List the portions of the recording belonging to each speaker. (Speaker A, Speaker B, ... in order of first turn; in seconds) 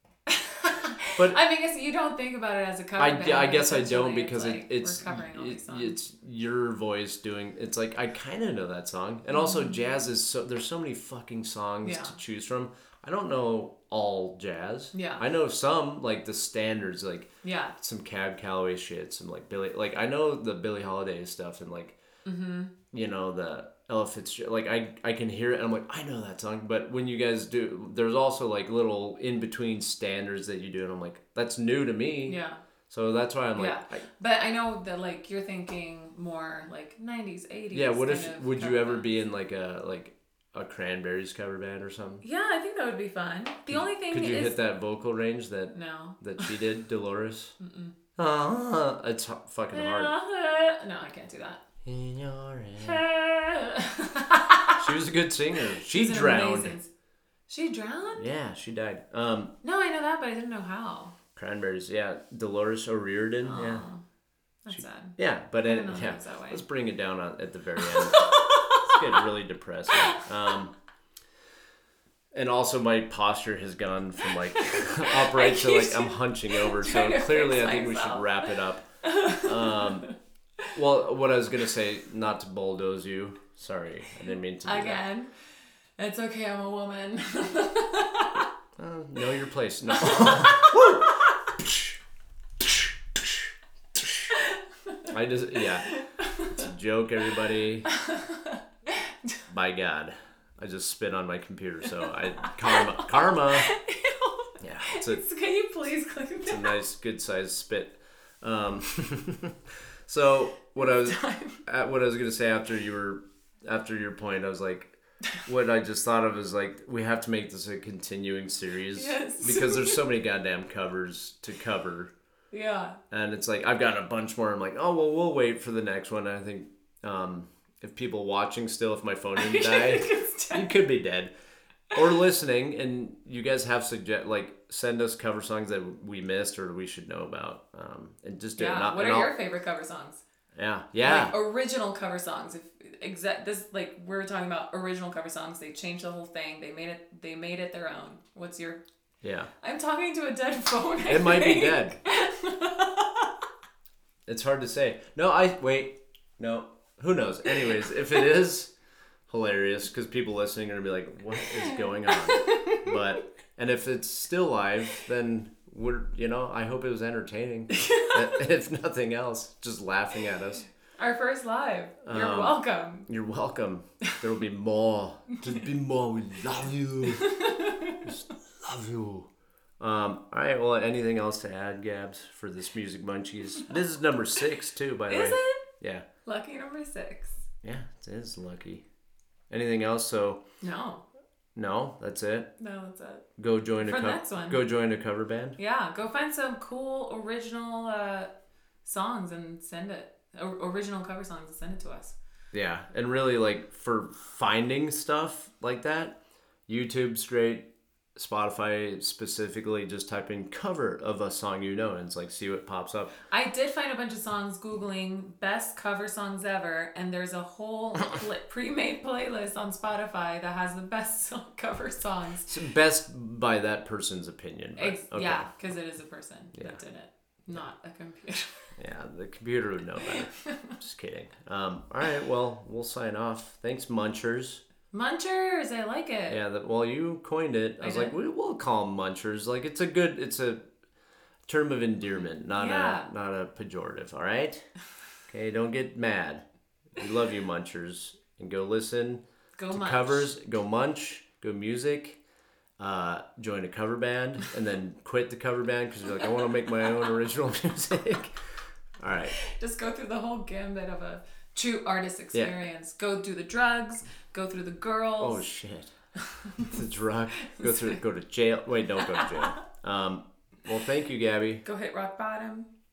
Speaker A: 0.3-5.9, 9.3-9.8, 11.8-12.2, 14.9-15.2, 17.4-17.7, 22.2-22.7, 32.2-32.6, 33.5-39.1, 42.2-44.6, 45.7-46.5, 47.6-47.9, 49.7-51.6, 52.8-54.9, 55.7-56.9, 57.5-58.3, 59.6-61.1, 63.4-64.0, 64.6-66.6, 67.8-69.2, 74.6-78.4, 79.0-80.2, 84.6-85.3, 86.0-88.5, 90.0-91.3, 94.3-95.1, 95.8-96.6, 97.9-99.4, 102.5-106.8, 110.8-111.6, 118.9-120.0, 122.5-123.0, 129.4-130.7, 138.6-140.2, 141.0-148.8, 149.6-153.3, 162.1-162.9, 167.7-168.2, 171.0-173.1, 177.2-178.1, 185.1-185.7, 186.2-187.4, 190.6-191.0, 192.6-193.3, 193.8-194.6, 195.6-198.3, 198.8-202.2, 213.3-222.5, 224.8-228.7, 234.9-236.4, 237.8-238.1, 242.5-243.1, 249.6-250.3, 259.3-265.4, 266.3-266.7, 267.4-267.9, 269.0-269.6, 271.6-272.7
Speaker B: 3.0-22.0, 22.9-34.0, 37.7-42.2, 43.7-47.5, 48.1-50.1, 51.8-53.0, 54.8-56.8, 58.2-59.5, 61.3-63.9, 64.7-70.7, 72.3-80.1, 80.7-85.0, 88.8-92.0, 92.6-93.3, 95.1-95.9, 96.5-97.9, 99.5-103.7, 104.6-105.2, 106.5-122.1, 123.1-131.3, 131.9-139.3, 140.5-141.3, 149.2-149.5, 151.1-152.0, 154.2-158.7, 159.3-170.6, 172.0-177.3, 178.0-179.3, 179.8-186.1, 187.6-188.8, 189.5-190.4, 191.5-192.5, 193.4-195.6, 202.5-206.2, 206.7-213.1, 222.4-225.5, 228.8-234.6, 236.3-240.6, 241.5-244.7, 245.3-246.4, 246.9-252.2, 252.8-258.4, 259.0-259.3, 265.2-265.9, 266.6-271.6